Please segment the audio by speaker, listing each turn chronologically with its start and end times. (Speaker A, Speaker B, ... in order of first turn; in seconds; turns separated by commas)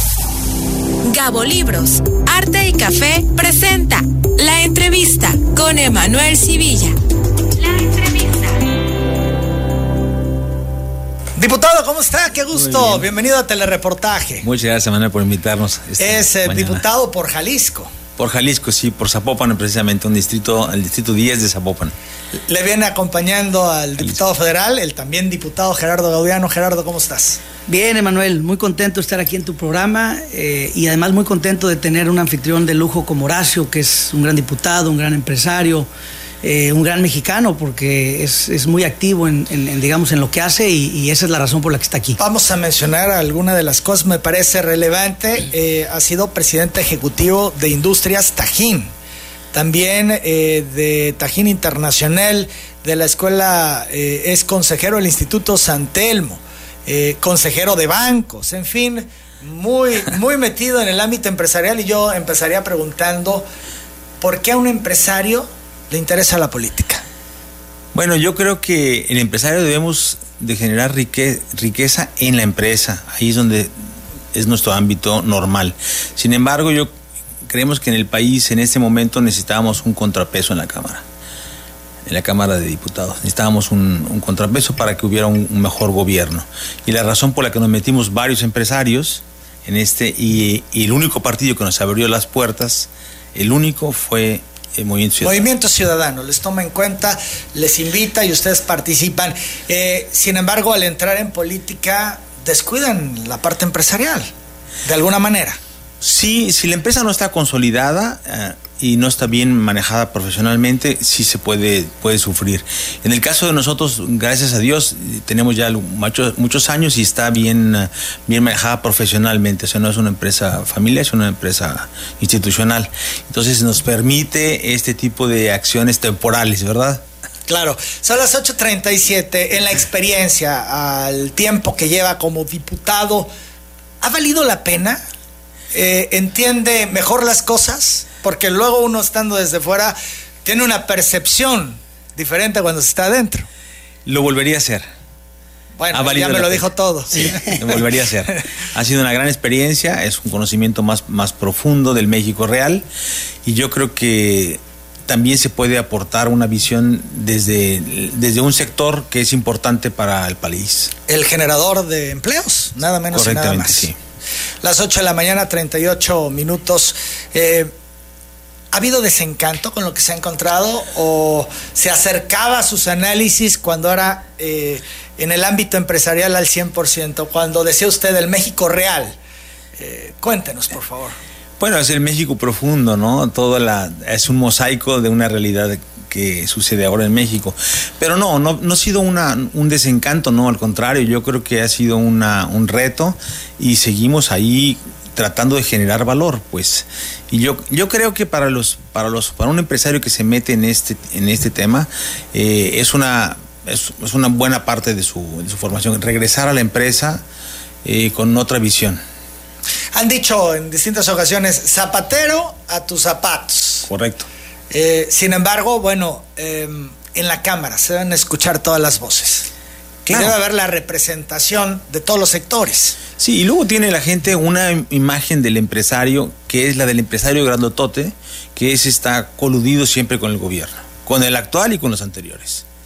Speaker A: 1.1-7.0, Speaker A: 7.6-8.6, Speaker B: 11.4-14.4, Speaker C: 12.5-13.1, Speaker C: 14.4-16.8, Speaker B: 16.0-17.9, Speaker C: 18.2-21.9, Speaker B: 22.5-27.4, Speaker D: 27.7-35.9, Speaker D: 36.4-42.2, Speaker B: 42.2-48.9, Speaker B: 49.5-63.4, Speaker B: 64.2-67.0, Speaker C: 67.9-73.7, Speaker C: 74.3-76.9, Speaker C: 77.5-81.0, Speaker C: 82.0-95.4, Speaker B: 95.2-104.3, Speaker B: 104.8-105.6, Speaker C: 106.0-127.0, Speaker B: 127.5-133.3, Speaker B: 134.0-135.0, Speaker B: 135.7-143.5, Speaker C: 144.1-144.8, Speaker B: 145.8-147.8, Speaker C: 145.9-152.8, Speaker C: 153.4-160.9, Speaker B: 161.1-163.9, Speaker C: 163.1-164.0, Speaker B: 164.6-167.7, Speaker B: 168.7-179.2, Speaker B: 179.8-181.1, Speaker C: 181.6-207.2, Speaker C: 207.8-209.0, Speaker B: 209.9-213.9, Speaker C: 213.9-214.3, Speaker B: 214.7-219.5, Speaker C: 220.1-220.4, Speaker B: 220.1-223.0, Speaker C: 223.2-232.6